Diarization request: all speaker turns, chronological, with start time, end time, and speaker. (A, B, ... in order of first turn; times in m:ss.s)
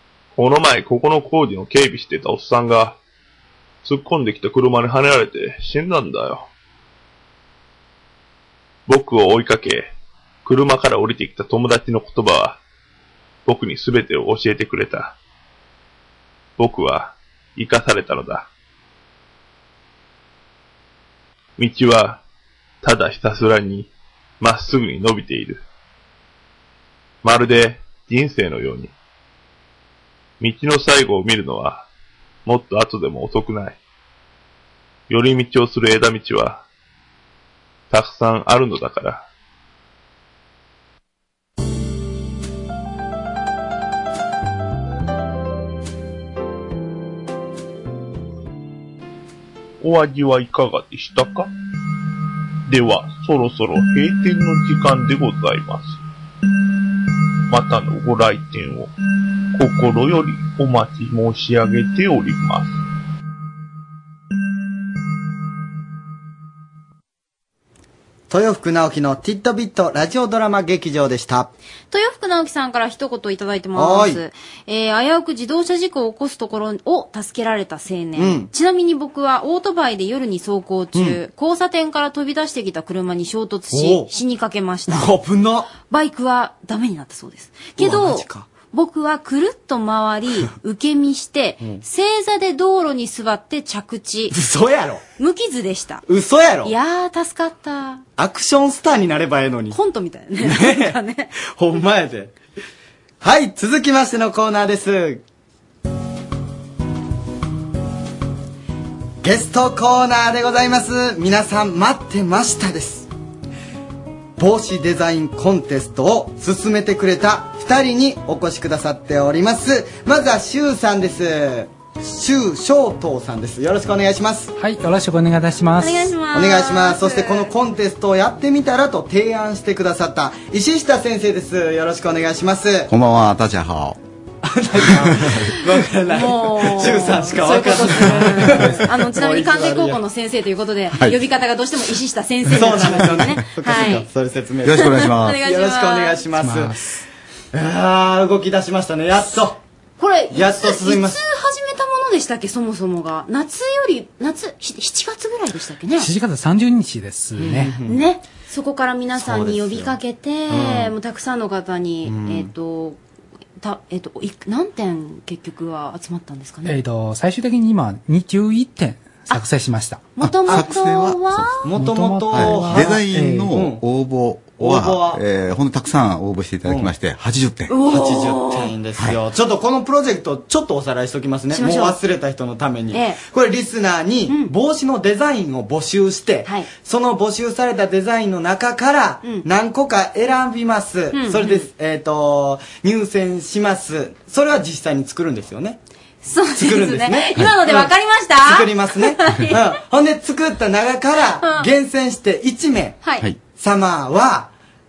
0:00.3-0:03.0 A
0:03.8-0:06.5 A
0:08.9-0:12.6 A
0:13.4-0:15.2 A
0:16.6-0:18.5 A
0:21.6-0:22.2 A
0:22.8-0:25.6 A
0:27.2-0:28.9 A
0:30.4-0:31.9 A
0:32.4-0:33.8 A
0:35.1-0:36.6 A
0:37.9-0:39.3 A
0:49.8-0:51.5 B
0:52.6-0:56.0 B
0:57.5-0:58.9 B
0:59.5-1:02.7 B
1:08.3-1:11.5 C
1:11.9-1:25.1 D
1:13.7-1:14.2 C
1:18.2-1:18.5 C
1:20.9-1:21.2 C
1:23.7-1:24.1 C
1:24.9-1:25.7 C
1:25.9-1:34.3 D
1:27.8-1:28.5 C
1:34.3-1:35.0 C
1:35.2-1:36.0 D
1:36.1-1:36.7 C
1:36.6-1:38.0 D
1:38.2-1:39.8 C
1:39.7-1:41.3 D
1:40.4-1:41.0 C
1:41.5-1:42.3 C
1:43.2-1:45.2 C
1:49.2-1:53.1 C
1:54.4-2:04.5 C
2:04.6-2:06.1 E
2:05.8-2:07.5 D
2:06.3-2:12.9 C
2:12.9-2:14.0 F
2:14.4-2:20.0 C
2:14.9-2:15.4 F
2:16.1-2:24.1 D
2:20.9-2:21.2 F
2:22.5-2:26.8 C
2:24.6-2:25.4 F
2:24.8-2:26.2 D
2:26.4-2:26.9 E
2:27.5-2:29.6 C
2:30.0-2:36.1 D
2:30.3-2:31.2 C
2:36.0-2:37.7 E
2:37.4-2:38.0 C
2:37.8-2:43.0 D
2:39.2-2:39.9 C
2:40.5-2:40.9 C
2:42.0-2:42.5 C
2:43.6-2:46.8 D
2:46.6-2:50.2 E
2:50.2-2:51.6 D
2:50.2-2:51.6 F
2:51.6-2:53.8 C
2:51.7-2:53.5 E
2:52.3-2:57.8 F
2:54.6-2:55.2 C
2:56.6-2:56.9 C
2:57.7-2:58.7 D
2:57.8-3:15.8 C
3:01.5-3:02.0 D
3:02.9-3:03.2 D
3:11.1-3:11.6 D
3:16.2-3:19.7 D
3:16.5-3:23.0 C
3:21.4-3:21.7 D
3:23.0-3:23.3 D
3:23.6-3:24.5 C